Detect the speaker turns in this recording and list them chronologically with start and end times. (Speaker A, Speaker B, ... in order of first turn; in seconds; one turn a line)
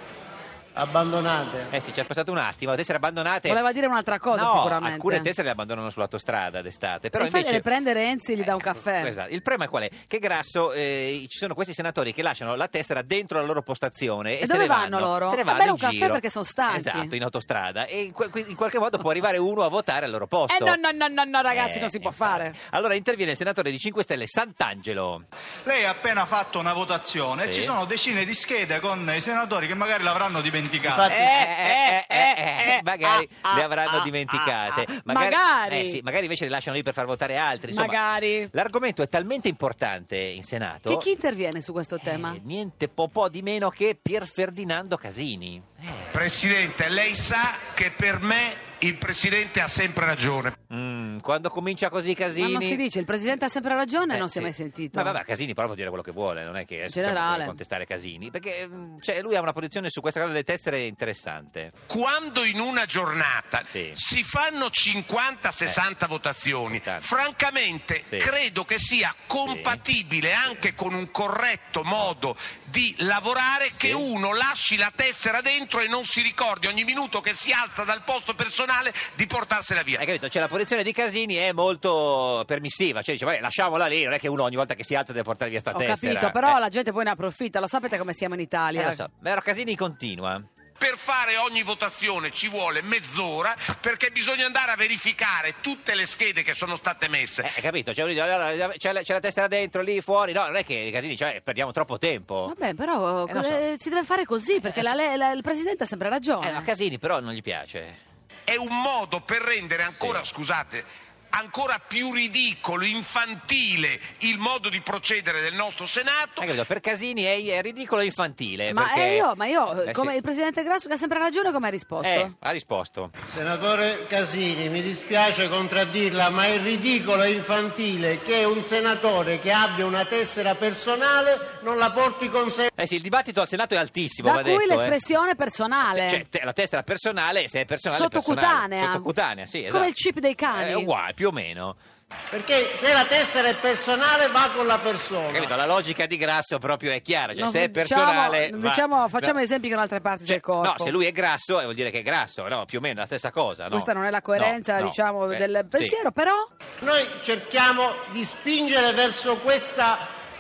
Speaker A: 0.8-1.7
Speaker B: 1.7-3.6
Speaker C: 3.5-5.3
Speaker B: 4.3-7.7
Speaker C: 7.2-9.2
Speaker B: 8.4-20.8
Speaker C: 14.4-17.1
Speaker C: 20.5-22.6
Speaker B: 21.5-25.2
Speaker D: 25.6-31.2
Speaker B: 27.4-27.8
Speaker A: 30.8-31.3
Speaker C: 31.1-34.0
Speaker B: 31.4-38.0
Speaker C: 34.7-36.0
Speaker C: 37.7-38.5
Speaker B: 38.5-41.1
Speaker C: 40.9-42.4
Speaker B: 42.1-46.2
Speaker E: 46.1-50.6
Speaker B: 50.7-52.8
Speaker C: 52.3-55.2
Speaker B: 54.1-61.8
Speaker C: 56.9-57.6
Speaker E: 61.9-80.0
Speaker B: 63.7-64.0
Speaker B: 66.8-67.1
Speaker B: 68.0-68.3
Speaker B: 69.4-69.8
Speaker B: 73.7-74.1
Speaker B: 79.9-86.6
Speaker C: 85.7-89.0
Speaker B: 88.8-90.5
Speaker E: 90.8-97.6
Speaker B: 97.4-102.5
Speaker C: 102.5-106.7
Speaker B: 103.3-103.6
Speaker B: 106.4-108.0
Speaker E: 108.5-116.6
Speaker B: 109.9-110.2
Speaker B: 116.3-119.2
Speaker C: 118.7-122.3
Speaker B: 119.8-120.1
Speaker B: 122.0-123.1
Speaker A: 123.2-132.7
Speaker B: 132.8-134.9
Speaker C: 134.2-136.2
Speaker B: 135.8-139.9
Speaker C: 137.9-139.1
Speaker C: 139.7-140.9
Speaker B: 140.5-141.8
Speaker A: 142.3-145.5
Speaker B: 145.3-149.4
Speaker C: 147.3-150.9
Speaker B: 150.2-156.0
Speaker C: 153.7-156.5
Speaker A: 156.8-160.1